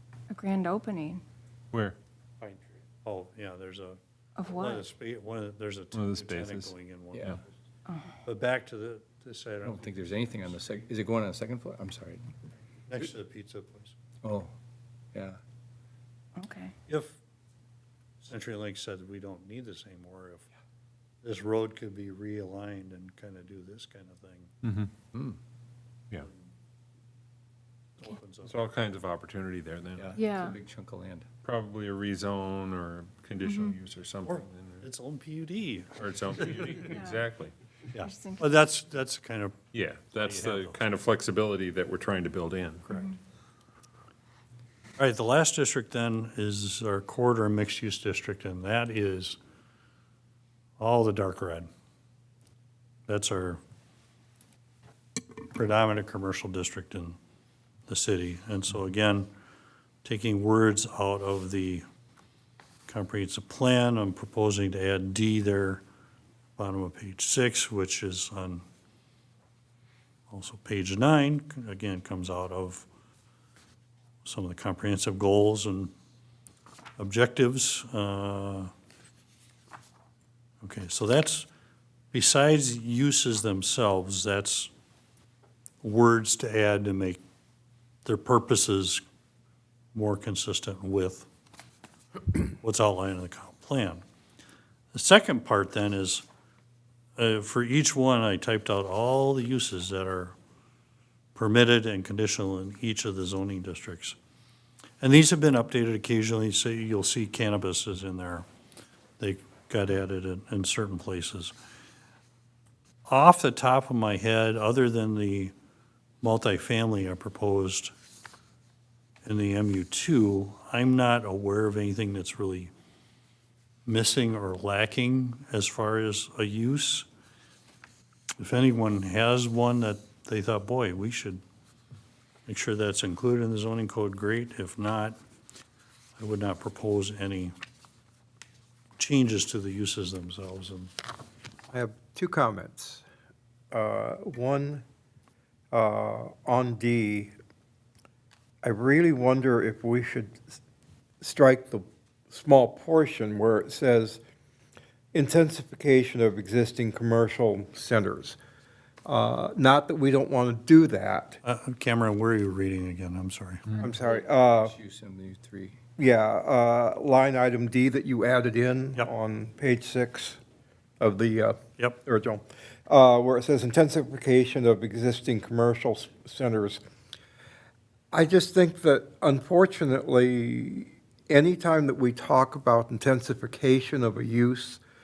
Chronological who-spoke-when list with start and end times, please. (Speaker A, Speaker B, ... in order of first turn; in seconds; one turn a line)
Speaker A: 0.3-1.2
Speaker B: 1.7-2.0
Speaker C: 3.0-7.5
Speaker A: 4.4-4.8
Speaker B: 5.9-6.7
Speaker D: 7.1-7.4
Speaker C: 8.2-10.6
Speaker D: 9.6-12.3
Speaker C: 12.9-14.0
Speaker D: 14.2-14.5
Speaker D: 15.1-15.4
Speaker A: 16.4-16.7
Speaker C: 16.9-17.1
Speaker C: 18.2-20.5
Speaker C: 21.2-24.5
Speaker B: 24.6-24.9
Speaker C: 28.0-28.8
Speaker B: 28.4-30.1
Speaker D: 29.9-31.3
Speaker A: 30.2-30.6
Speaker B: 31.4-34.9
Speaker A: 33.4-33.7
Speaker C: 34.2-36.9
Speaker B: 36.0-37.5
Speaker A: 36.9-37.2
Speaker C: 37.9-39.6
Speaker A: 38.0-38.6
Speaker B: 39.7-42.9
Speaker C: 40.2-40.8
Speaker C: 42.9-43.1
Speaker C: 45.0-49.4
Speaker C: 50.8-51.7
Speaker C: 53.1-53.6
Speaker C: 55.4-57.2
Speaker C: 57.9-59.3
Speaker C: 60.0-61.9
Speaker C: 62.9-65.8
Speaker C: 66.6-68.6
Speaker C: 70.3-72.9
Speaker C: 74.2-75.9
Speaker C: 77.0-78.7
Speaker C: 80.6-81.5
Speaker C: 82.1-84.7
Speaker C: 85.8-87.2
Speaker C: 88.0-89.0
Speaker C: 89.9-91.3
Speaker C: 92.6-94.0
Speaker C: 94.9-96.2
Speaker C: 97.2-100.3
Speaker C: 101.3-104.2
Speaker C: 105.0-108.5
Speaker C: 109.2-111.5
Speaker C: 113.1-115.5
Speaker C: 116.2-117.9
Speaker C: 119.2-122.7
Speaker C: 123.9-127.1
Speaker C: 128.4-131.4
Speaker C: 132.5-135.2
Speaker C: 136.2-137.5
Speaker C: 139.0-140.9
Speaker E: 141.7-143.1
Speaker E: 143.7-144.8
Speaker E: 145.7-147.3
Speaker E: 148.6-150.5
Speaker E: 151.2-154.2
Speaker E: 155.1-158.4
Speaker E: 159.1-161.4
Speaker C: 161.4-163.7
Speaker E: 163.8-164.8
Speaker D: 163.8-165.8
Speaker E: 166.0-170.4
Speaker E: 171.0-176.8
Speaker E: 178.1-184.8